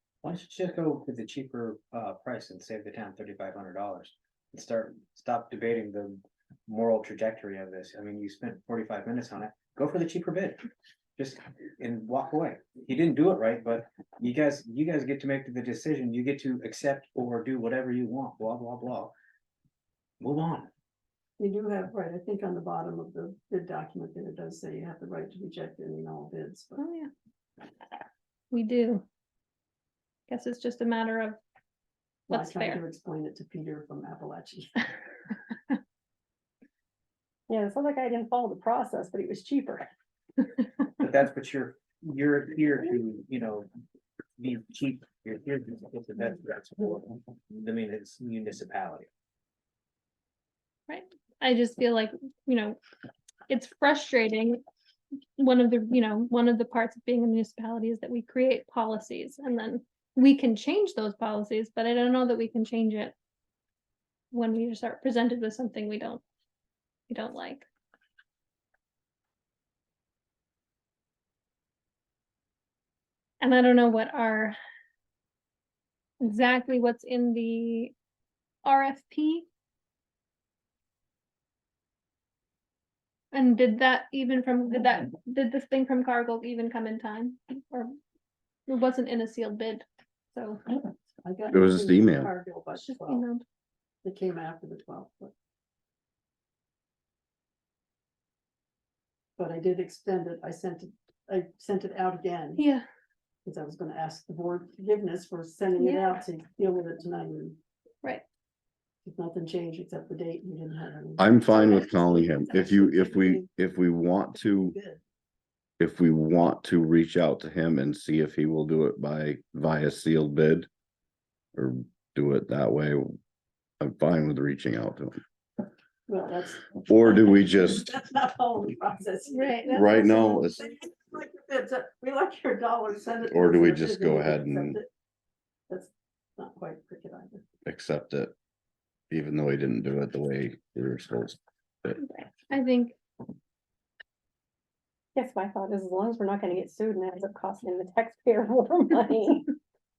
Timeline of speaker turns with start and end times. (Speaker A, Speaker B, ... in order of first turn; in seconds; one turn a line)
Speaker A: 0.2-10.6
Speaker A: 11.2-19.1
Speaker A: 20.2-20.7
Speaker B: 21.4-26.8
Speaker C: 26.8-27.1
Speaker C: 28.5-29.0
Speaker C: 30.3-31.4
Speaker C: 32.3-32.8
Speaker B: 32.3-34.9
Speaker D: 37.5-39.9
Speaker A: 41.0-43.7
Speaker A: 44.4-49.1
Speaker C: 50.9-52.8
Speaker C: 53.5-54.6
Speaker C: 55.4-63.1
Speaker C: 64.3-66.2
Speaker C: 67.1-67.7
Speaker C: 73.4-74.6
Speaker C: 76.2-77.9
Speaker C: 78.6-79.5
Speaker C: 83.3-87.9
Speaker C: 88.7-90.6
Speaker B: 91.2-93.2
Speaker E: 91.5-92.3
Speaker C: 92.8-93.4
Speaker B: 94.0-95.3
Speaker B: 99.4-102.6
Speaker C: 102.6-102.8
Speaker B: 103.4-107.6
Speaker C: 105.8-106.2
Speaker B: 109.0-113.5
Speaker E: 111.2-114.7
Speaker B: 114.3-115.0
Speaker E: 115.8-120.7
Speaker E: 121.5-123.0
Speaker E: 123.8-125.2
Speaker B: 126.1-134.9
Speaker E: 126.8-127.9
Speaker C: 129.3-130.4
Speaker E: 129.7-130.6
Speaker E: 133.3-134.8
Speaker B: 135.7-137.4
Speaker E: 137.7-138.3
Speaker E: 139.1-142.0
Speaker C: 142.0-143.0
Speaker D: 145.1-149.5